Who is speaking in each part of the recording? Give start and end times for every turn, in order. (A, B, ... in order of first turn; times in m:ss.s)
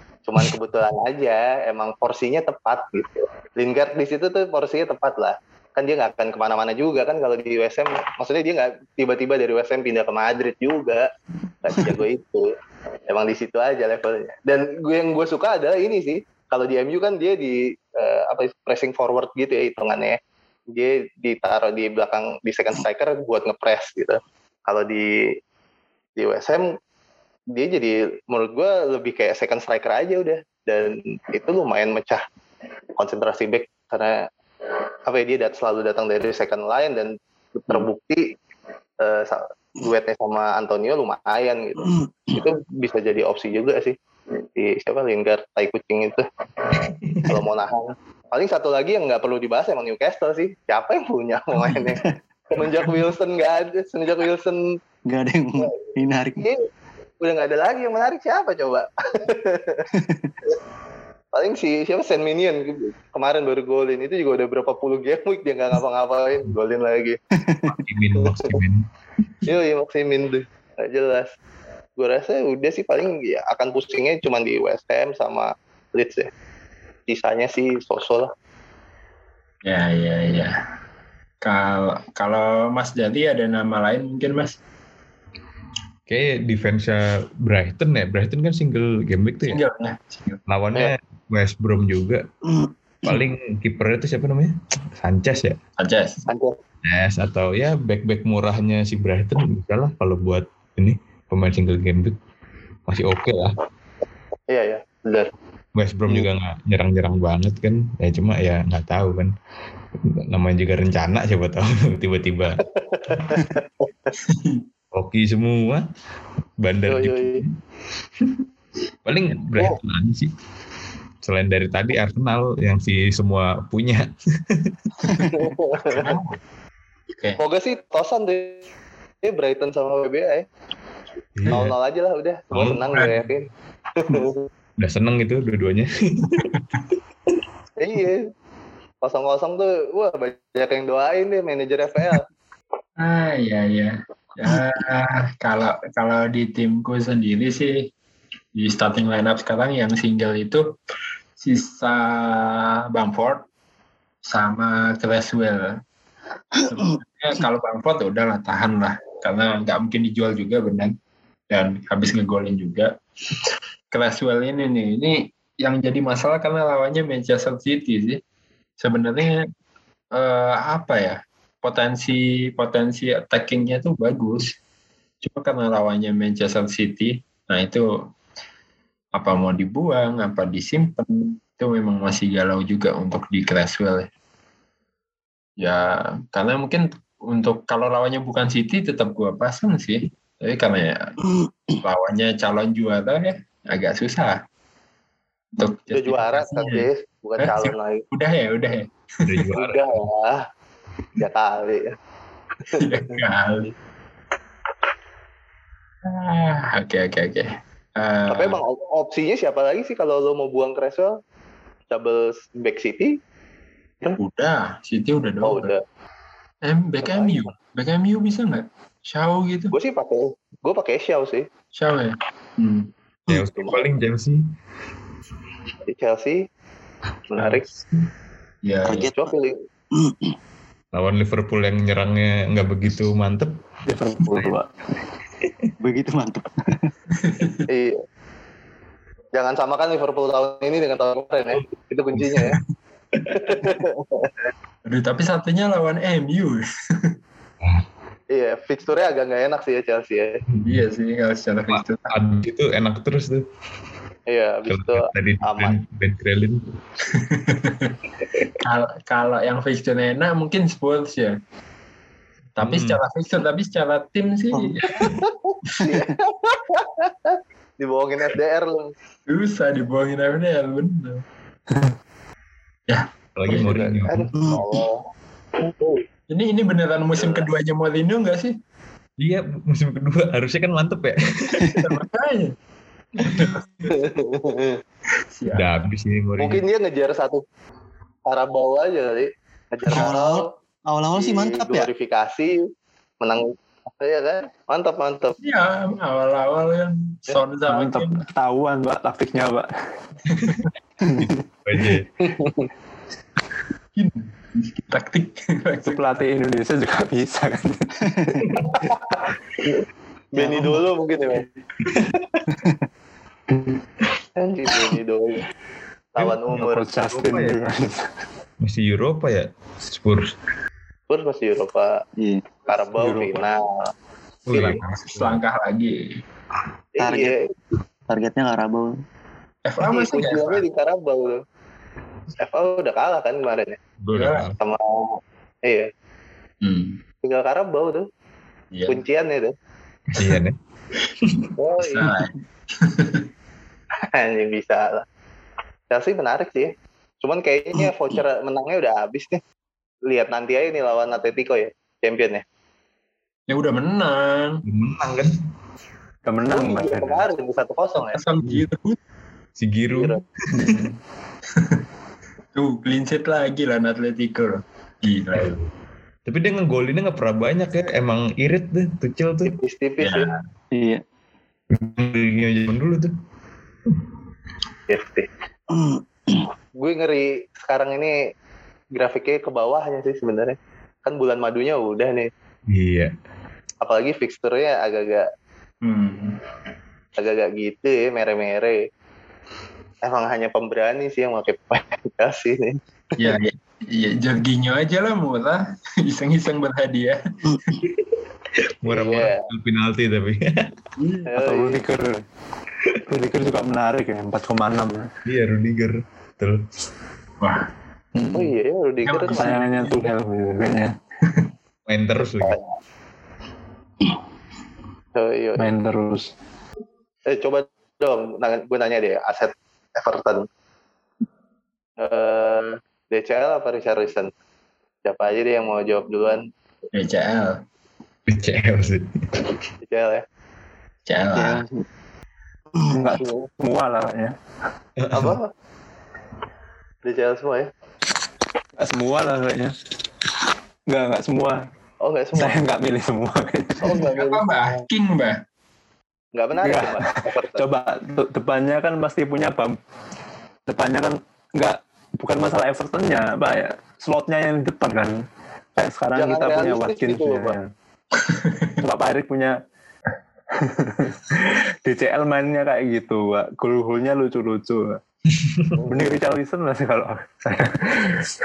0:00.2-0:11.0 A
0:11.6-0:12.5 A
0:13.1-0:20.2 A
0:20.7-0:25.1 A
0:26.2-0:26.7 A
0:27.5-0:32.2 A
0:33.0-0:34.2 A
0:35.1-0:38.2 A
0:39.0-0:44.0 A
0:41.8-0:42.4 B
0:44.6-0:54.6 A
0:55.1-0:56.5 B
0:55.6-0:56.6 A
0:57.2-0:59.8 A
0:59.9-1:00.3 B
1:01.3-1:07.2 A
1:07.3-1:07.7 B
1:07.6-1:08.8 C
1:08.2-1:08.5 A
1:09.4-1:11.3 A
1:12.0-1:16.3 A
1:17.1-1:18.3 A
1:19.6-1:20.5 D
1:21.4-1:24.6 D
1:26.1-1:29.6 C
1:29.4-1:30.4 D
1:30.5-1:32.2 C
1:32.5-1:33.2 B
1:33.0-1:35.6 C
1:35.8-1:36.2 D
1:36.3-1:36.6 A
1:36.8-1:42.1 C
1:42.9-1:43.5 C
1:44.5-1:45.3 A
1:45.7-1:49.3 C
1:50.1-1:52.6 C
1:52.6-1:54.1 A
1:53.1-1:53.4 C
1:54.2-1:54.6 D
1:54.9-1:55.8 C
1:56.6-1:57.5 C
1:56.9-1:57.4 A
1:59.0-2:00.3 C
2:01.2-2:04.7 C
2:05.2-2:06.1 A
2:05.8-2:06.4 D
2:07.4-2:08.6 A
2:09.2-2:10.4 A
2:11.4-2:11.7 C
2:11.5-2:14.5 A
2:12.5-2:13.3 C
2:14.8-2:16.5 C
2:17.8-2:18.2 A
2:19.0-2:22.2 A
2:23.0-2:27.9 D
2:28.6-2:30.6 D
2:31.4-2:33.4 D
2:34.2-2:35.7 D
2:36.6-2:40.9 D
2:41.5-2:42.9 D
2:43.9-2:48.2 D
2:48.8-2:49.5 D
2:50.1-2:54.5 D
2:55.2-2:57.8 D
2:59.1-3:04.1 D
3:05.6-3:11.1 D
3:11.4-3:11.8 B
3:11.8-3:14.4 D
3:15.6-3:16.8 D
3:15.9-3:18.0 A
3:17.4-3:19.5 D
3:19.2-3:20.1 C
3:19.5-3:20.4 A
3:21.2-3:21.9 A
3:22.7-3:23.2 A
3:22.8-3:23.7 D
3:26.0-3:28.6 D
3:28.3-3:31.1 A
3:31.9-3:33.1 A
3:34.2-3:35.7 D
3:35.4-3:35.8 A
3:36.6-3:39.7 D
3:37.0-3:37.4 A
3:39.7-3:41.5 A
3:41.7-3:42.9 D
3:43.3-3:43.8 A
3:43.3-3:44.4 C
3:45.9-3:46.4 A
3:47.3-3:47.6 A
3:47.4-3:47.8 D
3:48.6-3:49.1 D
3:48.8-3:49.2 B
3:49.1-3:49.5 A
3:50.0-3:50.3 B
3:50.9-3:53.5 C
3:53.8-3:54.7 E
3:55.8-3:56.9 B
3:57.2-3:57.7 D
3:57.7-3:58.0 A
3:59.3-4:02.6 A
4:02.2-4:02.5 D
4:03.2-4:03.7 C
4:03.3-4:04.4 A
4:04.8-4:07.1 D
4:08.3-4:10.4 A
4:10.5-4:10.8 C
4:10.6-4:12.1 D
4:11.7-4:13.4 C
4:14.3-4:15.8 A
4:14.7-4:16.6 C
4:17.1-4:17.9 D
4:18.6-4:21.4 D
4:22.5-4:25.1 D
4:22.6-4:23.0 C
4:25.0-4:28.9 A
4:29.3-4:31.2 D
4:32.9-4:33.7 D
4:33.4-4:34.3 C
4:33.5-4:35.0 A
4:34.4-4:34.6 B
4:35.6-4:36.0 A
4:36.3-4:38.5 D
4:37.1-4:37.5 A
4:39.2-4:41.8 C
4:41.7-4:42.5 D
4:43.2-4:44.0 D
4:43.9-4:44.8 A
4:45.3-4:45.6 D
4:45.5-4:46.6 C
4:46.4-4:47.4 A
4:48.3-4:50.5 A
4:49.9-4:51.9 B
4:51.1-4:52.6 A
4:53.2-4:53.5 A
4:54.0-4:55.3 A
4:55.4-4:58.2 D
4:57.7-4:59.7 E
5:00.3-5:00.7 D
5:01.0-5:01.3 B
5:01.6-5:02.1 C
5:02.2-5:02.7 A
5:04.0-5:06.1 D
5:05.8-5:07.9 E
5:08.0-5:08.4 B
5:08.5-5:11.4 A
5:10.4-5:10.8 B
5:11.9-5:12.3 C
5:14.4-5:15.4 A
5:16.1-5:16.9 A
5:16.2-5:16.6 C
5:16.5-5:18.0 E
5:17.1-5:17.7 C
5:18.6-5:20.3 C
5:21.1-5:21.9 A
5:22.2-5:22.5 B
5:22.6-5:23.8 A
5:22.9-5:23.5 E
5:24.4-5:25.4 C
5:24.5-5:24.8 A
5:24.6-5:26.1 D
5:26.9-5:27.5 A
5:27.0-5:27.3 B
5:28.1-5:28.9 B
5:29.6-5:30.6 D
5:29.8-5:31.4 A
5:32.4-5:33.8 A
5:34.0-5:34.6 C
5:34.1-5:34.5 D
5:34.6-5:35.9 A
5:36.6-5:37.0 D
5:37.2-5:38.1 A
5:38.7-5:39.0 D
5:38.9-5:39.5 A
5:40.1-5:40.6 C
5:41.2-5:41.5 C
5:41.6-5:42.1 A
5:41.8-5:43.2 D
5:44.1-5:45.0 A
5:45.9-5:46.7 A
5:47.2-5:49.4 A
5:50.1-5:52.4 A
5:53.5-5:54.6 D
5:54.7-5:55.3 C
5:56.2-5:57.3 E
5:56.5-5:58.2 A
5:58.1-5:59.0 D
5:59.6-6:00.8 C
6:00.0-6:00.2 A
6:01.6-6:01.8 D
6:02.5-6:05.6 D
6:05.4-6:05.6 C
6:06.2-6:09.6 C
6:09.4-6:10.3 A
6:10.0-6:10.4 D
6:10.7-6:11.0 B
6:11.7-6:13.1 C
6:14.9-6:15.3 A
6:15.7-6:16.4 B
6:16.8-6:18.2 A
6:18.9-6:22.3 A
6:22.7-6:23.1 C
6:23.8-6:25.3 A
6:25.8-6:26.4 D
6:27.2-6:28.8 A
6:30.0-6:33.3 A
6:33.2-6:37.2 D
6:37.4-6:37.8 B
6:38.8-6:40.6 C
6:38.8-6:39.5 A
6:41.0-6:41.3 D
6:41.3-6:41.8 A
6:41.4-6:42.2 E
6:43.1-6:45.1 E
6:45.2-6:46.6 C
6:47.4-6:47.7 D
6:48.1-6:48.5 E
6:48.3-6:49.6 A
6:49.0-6:50.1 D
6:49.3-6:50.9 E
6:51.9-6:52.6 C
6:52.4-6:52.7 A
6:55.1-6:55.7 A
6:55.6-6:56.3 E
6:57.2-7:00.4 A
7:02.0-7:04.3 A
7:05.0-7:06.4 A
7:06.9-7:07.6 D
7:08.3-7:09.4 C
7:09.8-7:10.2 A
7:11.1-7:11.6 D
7:11.3-7:11.8 B
7:12.9-7:14.3 E
7:15.0-7:15.4 C
7:15.1-7:15.5 A
7:17.0-7:17.7 A
7:18.8-7:19.7 E
7:20.9-7:21.6 E
7:22.0-7:22.6 A
7:22.4-7:24.0 E
7:23.8-7:24.8 A
7:24.1-7:25.4 D
7:26.3-7:27.6 A
7:26.6-7:29.8 E
7:30.7-7:35.2 E
7:35.8-7:37.6 E
7:36.1-7:37.6 A
7:38.2-7:38.8 D
7:38.8-7:39.6 E
7:40.6-7:45.0 E
7:45.8-7:48.3 E